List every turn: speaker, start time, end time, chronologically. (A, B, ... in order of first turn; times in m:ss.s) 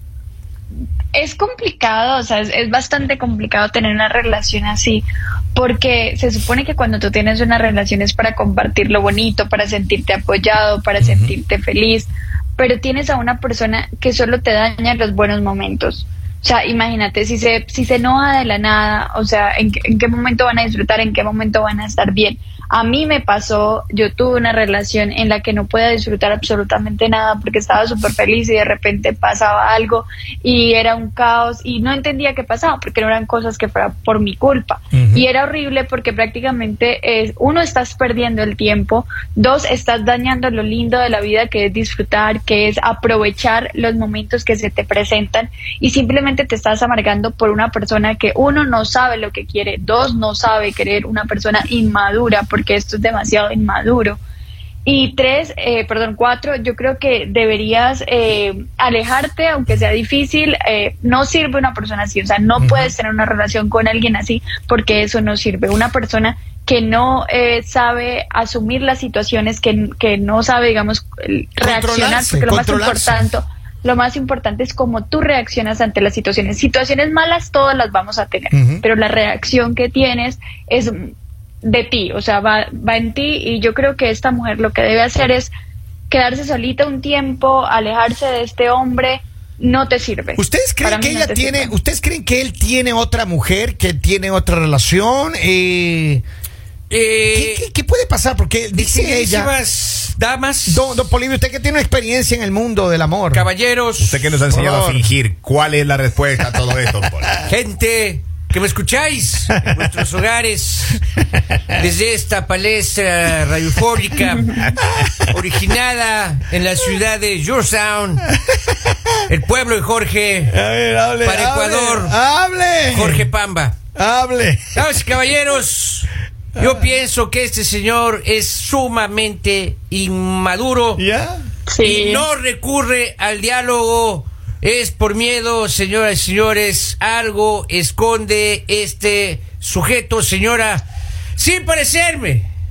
0:01.1-0:54.2 A
0:11.0-0:11.4 B
0:34.9-0:35.3 B
0:54.8-1:25.5 A
1:02.6-1:02.9 B
1:11.6-1:13.3 B
1:18.5-1:18.8 B
1:26.1-1:31.7 A
1:30.4-1:36.2 B
1:36.9-1:37.7 C
1:37.3-1:39.5 B
1:38.7-1:41.0 C
1:40.7-1:43.5 B
1:43.3-1:44.3 C
1:44.0-1:47.4 D
1:44.5-1:45.1 B
1:47.4-1:51.0 C
1:51.7-1:54.8 C
1:55.3-1:58.3 C
1:59.3-2:00.6 C
2:00.5-2:03.3 B
2:01.2-2:02.2 C
2:02.9-2:03.8 C
2:04.0-2:04.9 B
2:04.8-2:11.0 C
2:11.0-2:11.4 B
2:11.7-2:12.3 A
2:11.8-2:22.5 C